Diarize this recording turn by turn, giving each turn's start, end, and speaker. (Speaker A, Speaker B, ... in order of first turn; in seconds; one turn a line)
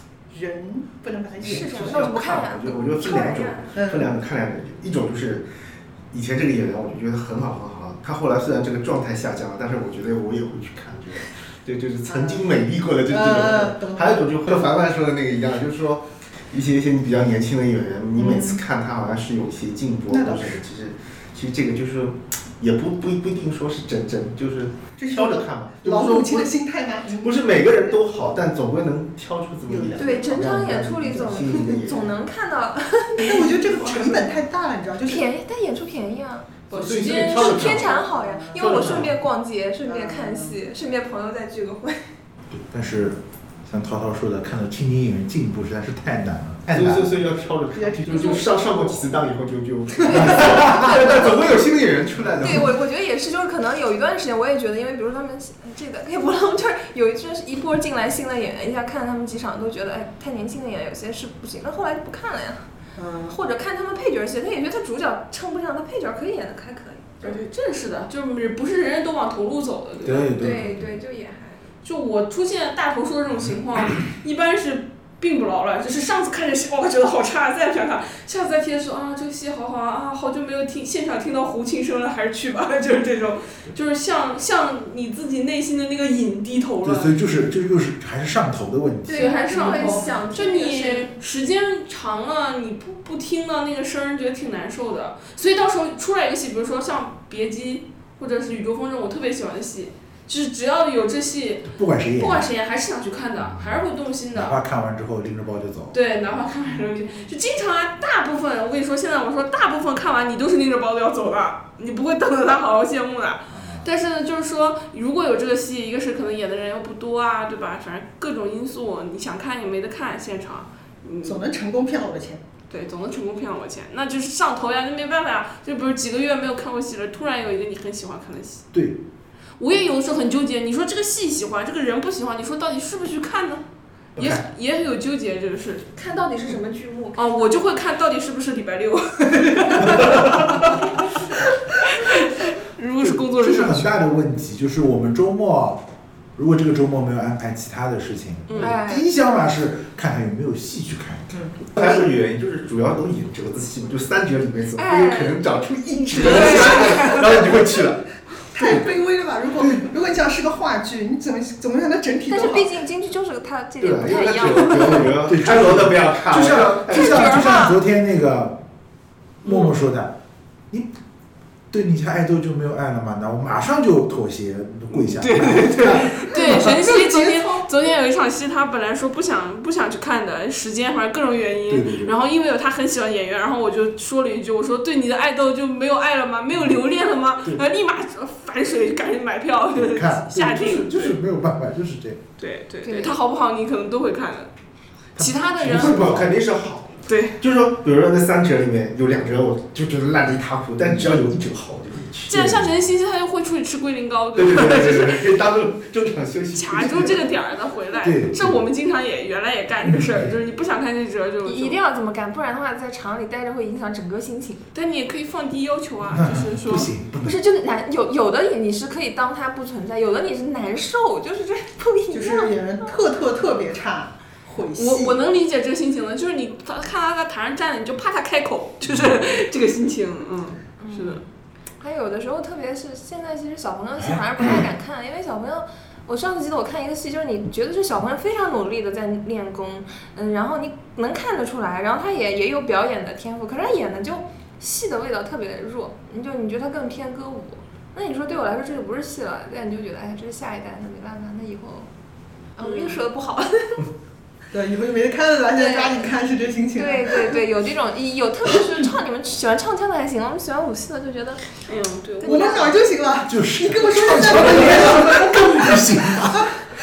Speaker A: 0.3-2.3
Speaker B: 1.4-5.5
Speaker C: 1.4-3.8
Speaker A: 3.8-4.1
Speaker B: 6.1-26.5
Speaker A: 12.1-14.3
Speaker A: 18.2-18.6
Speaker A: 20.1-20.6
Speaker A: 25.0-27.6
Speaker B: 27.2-32.1
Speaker A: 29.7-30.3
Speaker C: 30.0-33.9
Speaker A: 33.2-35.2
Speaker C: 35.0-42.1
Speaker D: 36.7-37.9
Speaker B: 36.7-38.0
Speaker A: 37.8-39.1
Speaker B: 38.6-39.1
Speaker A: 39.9-40.6
Speaker E: 42.5-47.1
Speaker B: 46.7-52.8
Speaker A: 47.7-49.0
Speaker D: 48.1-48.4
Speaker C: 50.0-51.6
Speaker C: 52.4-62.6
Speaker A: 63.0-63.4
Speaker C: 63.3-67.4
Speaker D: 67.2-70.3
Speaker E: 70.0-71.0
Speaker C: 70.4-71.7
Speaker D: 71.8-87.1
Speaker E: 86.8-89.4
Speaker C: 89.1-91.1
Speaker D: 89.1-104.6
Speaker A: 89.5-90.2
Speaker E: 101.7-102.5
Speaker E: 103.4-106.0
Speaker D: 105.9-121.4
Speaker E: 113.5-113.9
Speaker A: 121.2-122.4
Speaker D: 122.7-128.7
Speaker E: 128.7-129.0
Speaker D: 129.6-133.6
Speaker E: 134.2-134.4
Speaker D: 134.2-135.9
Speaker C: 135.9-137.6
Speaker D: 137.2-143.9
Speaker E: 139.8-140.7
Speaker E: 143.0-145.8
Speaker E: 146.4-152.1
Speaker D: 148.5-148.8
Speaker C: 148.6-149.1
Speaker B: 151.7-158.1
Speaker C: 154.8-155.4
Speaker D: 156.2-157.2
Speaker A: 158.5-162.7
Speaker E: 159.6-159.9
Speaker C: 162.3-165.1
Speaker B: 163.8-167.5
Speaker E: 165.2-168.6
Speaker C: 166.9-167.8
Speaker E: 169.4-170.2
Speaker D: 169.4-169.7
Speaker E: 171.7-176.6
Speaker D: 175.1-191.2
Speaker A: 176.3-177.7
Speaker E: 181.7-182.2
Speaker E: 186.5-186.8
Speaker E: 189.8-192.2
Speaker D: 192.4-194.5
Speaker C: 192.8-193.2
Speaker D: 195.2-196.1
Speaker E: 195.2-196.3
Speaker B: 195.7-202.4
Speaker D: 197.1-197.4
Speaker E: 200.9-201.2
Speaker D: 202.3-205.3
Speaker E: 202.3-202.7
Speaker B: 204.3-207.3
Speaker D: 206.5-211.8
Speaker E: 208.0-208.6
Speaker E: 209.8-210.4
Speaker C: 211.5-214.7
Speaker D: 214.7-216.9
Speaker E: 216.1-217.4
Speaker C: 217.2-223.0
Speaker A: 222.1-225.2
Speaker D: 224.8-231.2
Speaker E: 228.9-229.2
Speaker C: 230.8-231.2
Speaker C: 231.8-251.9
Speaker E: 234.0-234.6
Speaker C: 252.6-253.9
Speaker D: 252.6-253.0
Speaker A: 254.5-257.5
Speaker C: 255.5-256.1
Speaker C: 256.8-261.5
Speaker D: 261.6-262.8
Speaker C: 262.2-262.7
Speaker A: 262.2-266.7
Speaker E: 263.3-266.5